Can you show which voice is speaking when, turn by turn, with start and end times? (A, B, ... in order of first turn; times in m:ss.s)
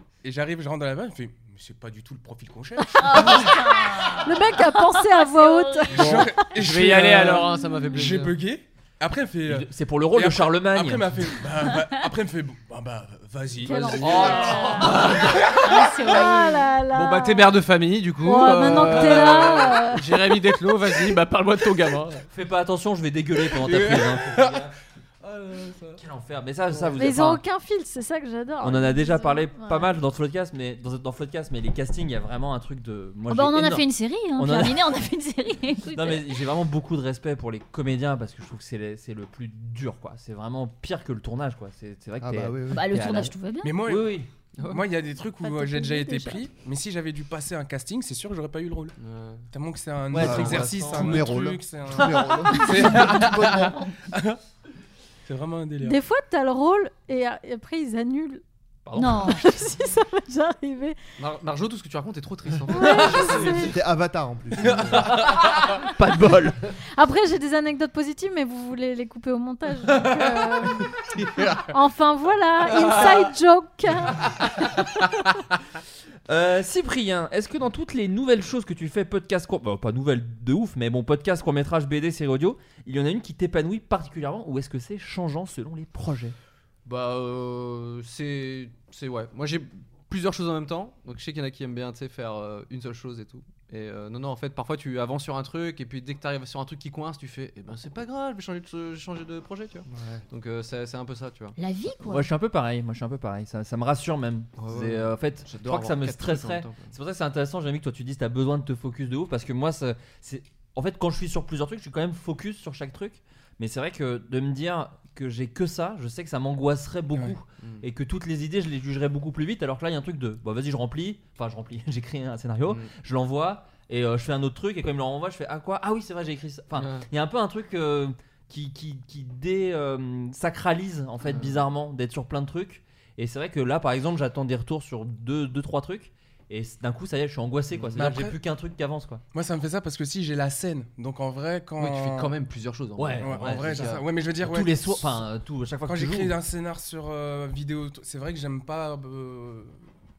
0:00.2-0:03.6 A
0:03.0-0:06.1 B
0:03.0-0:06.4 C
0:05.9-0:08.4 D
0:05.9-0:14.4 A
0:09.5-0:11.3 E
0:13.6-0:15.0 C
0:13.6-0:16.2 D
0:14.0-0:15.2 E
0:14.6-0:16.7 B
0:16.1-0:17.6 C
0:16.9-0:22.3 D
0:18.2-0:20.5 C
0:22.3-0:24.7 E
0:23.6-0:24.4 A
0:25.2-0:26.0 D
0:26.0-0:27.4 E
0:26.7-0:27.1 D
0:27.0-0:29.9 C
0:28.6-0:33.8 E
0:33.3-0:36.4 B
0:34.4-0:34.8 E
0:35.9-0:44.3 E
0:42.2-0:42.9 F
0:42.7-0:43.8 B
0:43.6-0:49.0 A
0:44.6-0:44.9 D
0:45.6-0:46.4 C
0:49.0-0:49.5 D
0:49.5-0:54.4 A
0:50.1-0:51.3 E
0:50.2-0:53.8 F
0:50.2-0:51.1 D
0:55.2-0:56.0 A
0:55.8-0:58.4 C
0:58.8-0:59.2 E
0:59.0-0:59.6 B
0:59.3-1:01.0 C
1:01.2-1:03.6 D
1:02.7-1:03.8 C
1:03.4-1:05.1 F
1:05.2-1:06.6 E
1:06.9-1:10.9 C
1:10.0-1:10.6 D
1:11.7-1:14.3 C
1:12.8-1:13.2 D
1:16.3-1:26.4 E
1:26.8-1:41.6 D
1:41.6-1:42.3 B
1:42.0-2:19.2 E
1:44.6-1:46.9 D
1:57.6-1:57.8 D
2:02.6-2:02.9 D
2:06.8-2:07.1 D
2:11.2-2:11.6 D
2:17.7-2:18.1 D
2:18.0-2:18.4 A
2:19.3-2:22.3 A
2:21.8-2:24.1 D
2:23.0-2:26.3 E
2:23.2-2:25.2 A
2:25.9-2:29.8 A